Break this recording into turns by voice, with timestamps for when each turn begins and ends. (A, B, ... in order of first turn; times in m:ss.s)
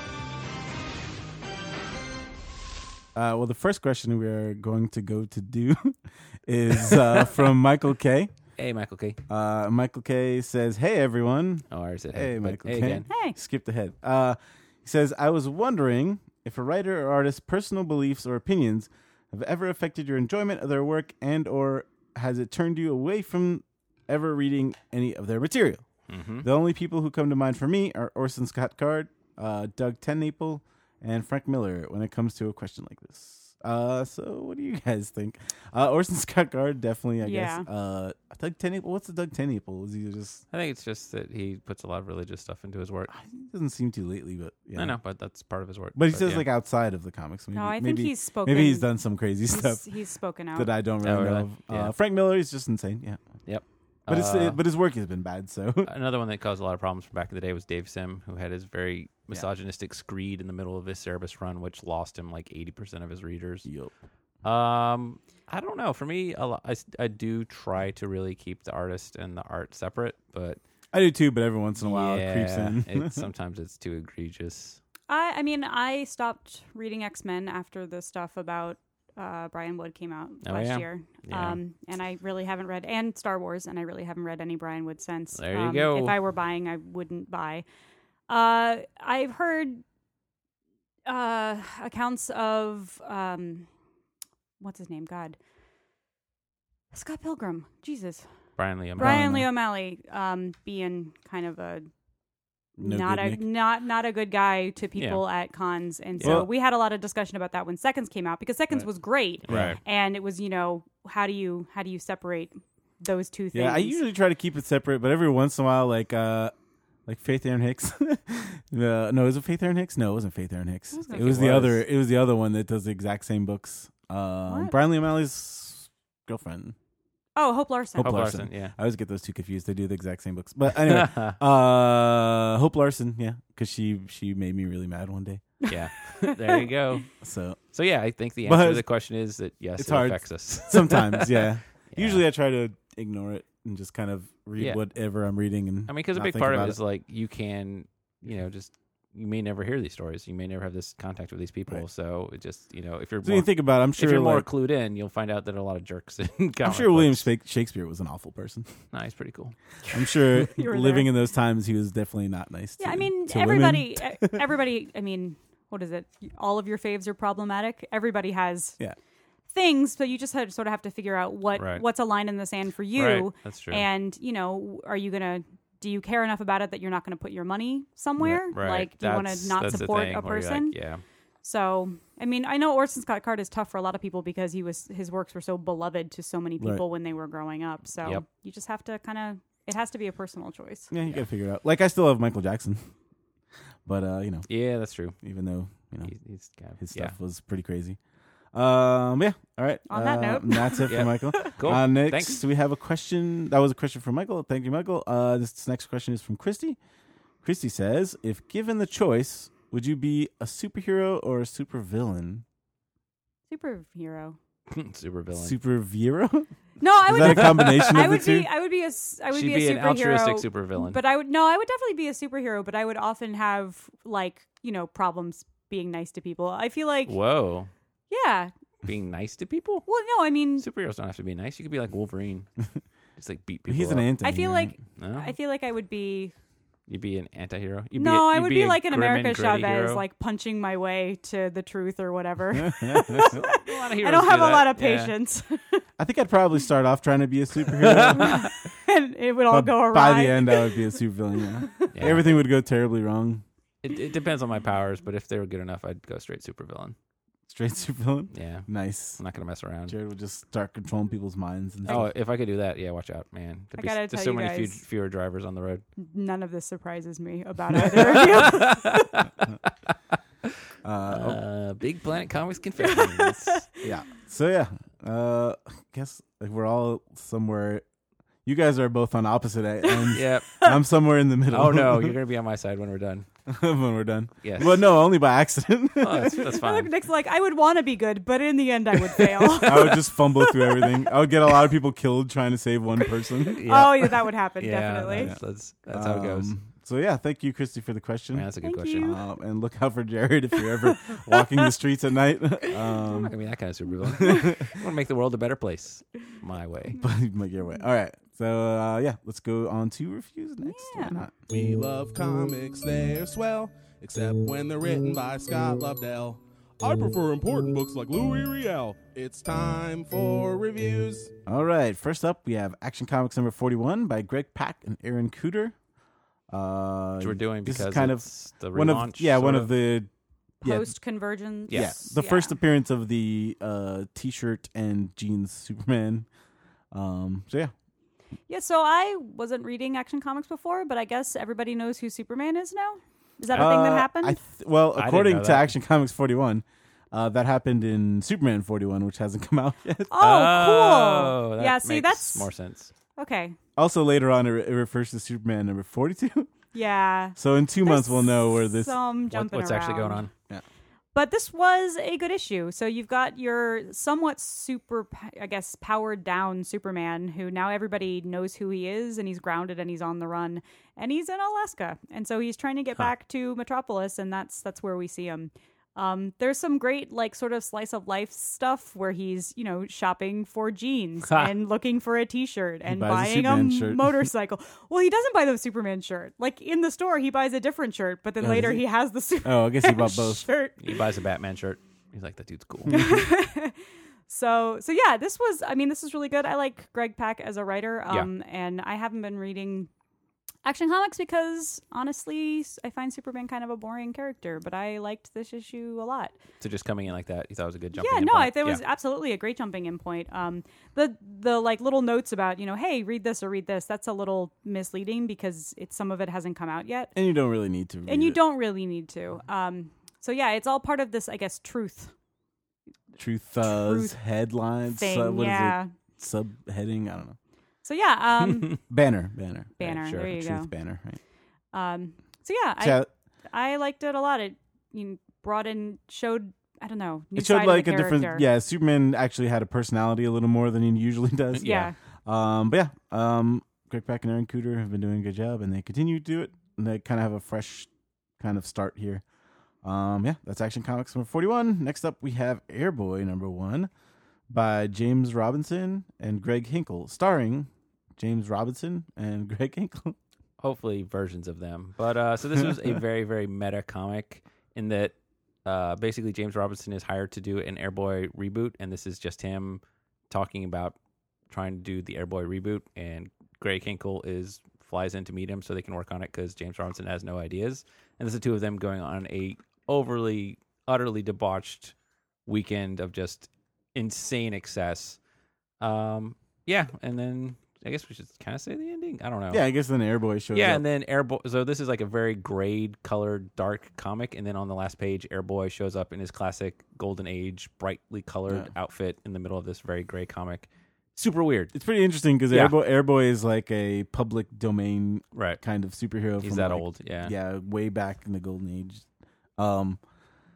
0:03.1-0:08.3 A
0:08.6-0:09.2 B
0:09.3-0:25.8 A
0:11.7-0:13.1 B
0:13.1-0:13.4 C
0:26.1-0:26.5 B
0:26.4-0:40.4 A
0:37.2-0:37.7 C
0:40.5-0:43.1 B
0:43.1-0:45.0 A
0:44.7-0:46.4 B
0:45.9-0:49.8 A
0:47.5-0:48.9 C
0:49.5-0:50.7 C
0:50.5-0:53.2 A
0:51.0-0:51.9 B
0:53.4-0:54.6 B
0:54.1-0:55.9 A
0:55.8-1:03.6 B
1:03.6-1:03.9 A
1:04.4-1:10.6 B
1:10.9-1:13.3 A
1:11.8-1:14.8 B
1:15.1-1:27.6 C
1:20.4-1:21.6 B
1:25.4-1:26.2 B
1:28.3-1:29.8 C
1:31.1-1:33.7 C
1:34.6-1:35.4 C
1:36.9-1:38.2 C
1:38.6-1:39.3 B
1:39.0-1:39.5 A
1:39.0-1:41.9 C
1:42.8-1:43.4 A
1:42.8-1:54.0 C
1:46.2-1:46.4 B
1:46.2-1:46.5 A
1:49.5-1:49.8 A
1:49.5-1:49.8 B
1:53.5-1:56.5 A
1:57.1-2:06.7 A
2:00.9-2:01.2 C
2:01.1-2:01.8 B
2:04.5-2:04.7 C
2:07.4-2:08.3 C
2:07.9-2:15.5 A
2:08.0-2:08.7 B
2:10.8-2:11.4 B
2:15.6-2:16.6 C
2:15.7-2:17.1 B
2:17.2-2:17.6 A
2:17.7-2:22.2 B
2:18.4-2:18.9 A
2:19.8-2:26.8 A
2:25.9-2:37.2 B
2:33.2-2:34.5 A
2:36.6-2:38.7 A
2:38.9-2:39.5 B
2:39.9-2:41.1 C
2:39.9-2:44.4 A
2:42.8-2:48.8 C
2:49.5-3:00.7 C
2:51.5-2:51.8 B
2:52.9-2:53.8 B
2:58.5-3:01.0 B
3:01.4-3:10.9 C
3:10.9-3:12.9 A
3:13.8-3:14.5 A
3:14.5-3:15.2 B
3:15.2-3:16.1 A
3:16.0-3:17.1 B
3:16.8-3:18.0 A
3:18.5-3:26.8 A
3:19.9-3:21.6 C
3:20.9-3:22.4 B
3:27.4-3:32.4 A
3:33.5-3:34.4 C
3:34.7-3:35.5 B
3:35.3-3:36.5 A
3:36.8-3:47.1 C
3:37.0-3:38.5 A
3:37.1-3:38.0 B
3:39.3-3:41.0 B
3:47.1-3:47.7 B
3:48.1-3:48.5 C
3:48.8-3:49.9 B
3:49.8-3:50.6 C
3:50.6-3:52.5 B
3:53.2-3:54.1 B
3:53.7-3:54.8 A
3:54.2-3:56.3 C
3:55.0-3:55.3 B
3:56.9-4:00.0 B
3:57.9-4:05.8 C
4:02.5-4:03.4 A
4:03.4-4:05.1 B
4:06.0-4:08.5 A
4:07.8-4:08.5 B
4:08.2-4:10.9 C
4:09.5-4:13.4 A
4:11.6-4:11.9 C
4:11.9-4:12.3 B
4:13.8-4:16.9 B
4:17.5-4:19.2 A
4:18.3-4:19.9 B
4:19.9-4:22.1 A
4:21.9-4:25.8 B
4:23.8-4:24.8 C
4:26.0-4:29.0 C
4:27.8-4:29.9 B
4:30.8-4:31.4 A
4:31.1-4:33.6 B
4:32.8-4:33.8 C
4:33.8-4:37.8 A
4:38.4-4:42.2 A
4:39.8-4:40.8 C
4:40.1-4:40.7 B
4:41.5-4:43.2 B
4:43.5-4:46.5 A
4:44.4-4:44.8 B
4:46.0-4:46.9 B
4:46.3-4:51.0 C
4:49.2-4:50.0 B
4:49.6-4:53.7 A
4:53.3-4:55.3 C
4:53.6-4:56.5 B
4:55.2-4:58.5 A
4:58.3-4:59.1 B
4:58.6-4:59.2 C
4:59.0-5:03.3 A
5:00.8-5:01.6 C
5:03.0-5:07.0 B
5:04.0-5:04.8 A
5:04.2-5:04.5 C
5:07.0-5:11.3 A
5:10.6-5:11.2 C
5:11.5-5:21.3 D
5:21.4-5:25.7 A
5:26.5-5:30.1 A
5:27.2-5:29.7 B
5:30.6-5:30.9 A
5:30.6-5:32.5 C
5:31.7-5:36.3 A
5:36.9-5:37.7 A
5:38.5-5:44.4 C
5:43.5-5:50.1 A
5:44.9-5:45.7 B
5:50.1-5:52.5 C
5:50.2-5:52.9 B
5:53.2-5:53.6 C
5:53.8-5:56.5 A
5:56.7-6:00.3 C
5:57.4-5:58.9 A
5:59.3-6:00.3 B
6:01.1-6:31.0 C
6:22.8-6:24.3 A
6:28.4-6:28.8 A
6:29.4-6:30.4 A
6:30.8-6:32.9 B
6:32.8-6:33.2 A
6:32.9-6:33.8 C
6:34.3-6:39.9 C
6:40.6-6:46.4 C
6:46.6-6:48.8 B
6:48.0-6:57.1 C
6:57.1-6:58.4 A
6:58.0-7:02.1 C
7:03.2-7:07.4 A
7:03.7-7:04.1 C
7:04.9-7:05.9 C
7:07.8-7:08.8 C
7:08.9-7:11.2 A
7:09.8-7:10.7 C
7:09.8-7:10.3 B
7:11.7-7:18.4 C
7:12.8-7:13.1 A
7:17.4-7:21.7 A
7:21.5-7:21.9 B
7:21.6-7:22.0 C
7:22.2-7:29.2 A
7:29.8-7:33.9 A
7:34.5-7:40.2 A
7:40.6-7:51.0 B
7:51.5-8:01.9 B
8:02.4-8:05.2 B
8:05.8-8:09.6 B
8:09.5-8:10.8 A
8:10.5-8:21.7 B
8:21.7-8:29.0 A
8:22.5-8:22.8 B
8:25.4-8:25.6 B
8:26.4-8:27.3 B
8:29.6-8:30.0 A